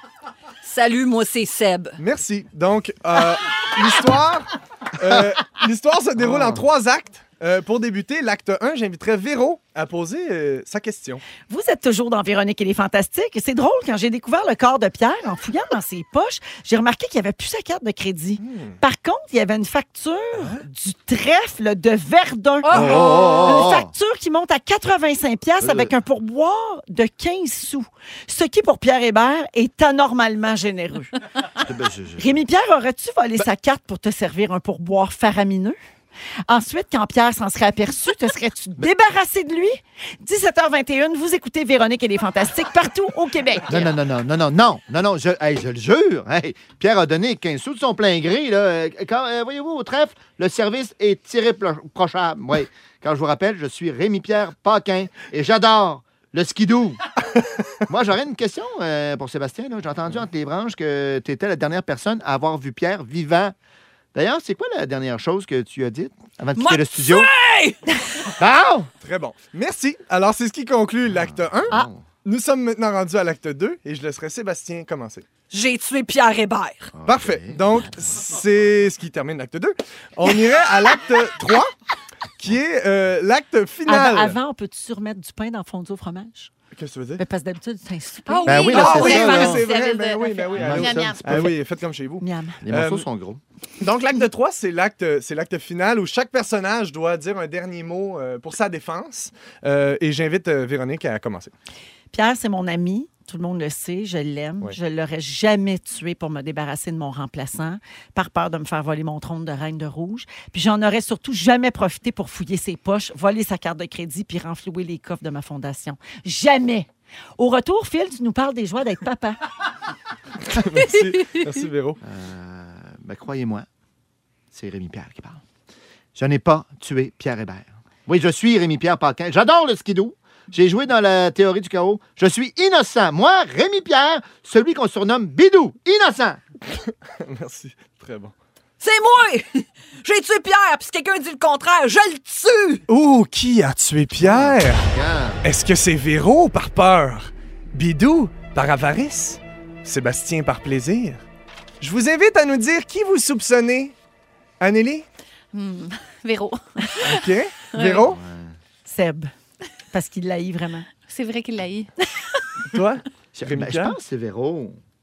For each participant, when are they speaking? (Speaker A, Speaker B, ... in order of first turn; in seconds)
Speaker A: 0.6-2.0, 66.5-67.8, 75.5-76.9, 138.8-142.8
Speaker B: 2.0-11.2, 18.4-18.8, 20.4-20.6, 69.0-75.3, 77.0-81.7, 82.4-84.4, 86.7-87.2, 88.6-93.0, 93.8-101.5, 120.5-122.0, 137.2-138.3, 142.9-144.8, 145.4-151.2, 151.8-153.9, 154.6-155.1, 157.0-158.2, 162.7-164.0
Speaker C: 6.2-6.6, 22.7-23.9, 25.6-25.9, 31.6-32.4, 43.7-57.0, 57.9-63.5, 64.1-67.3, 68.4-68.9, 71.1-72.1, 76.9-78.2, 88.5-89.7, 90.5-91.5, 92.6-93.4, 122.0-123.7, 124.5-125.4, 126.2-136.4, 144.2-145.4, 158.1-158.6, 163.3-164.8
Speaker D: 11.5-31.1, 32.2-35.8, 36.5-43.9, 83.9-86.5, 87.2-89.1, 92.2-92.6, 102.1-119.4, 158.9-159.3, 159.9-160.9
Speaker E: 22.6-23.6, 88.3-91.5, 155.5-156.9, 157.7-158.0, 161.1-161.9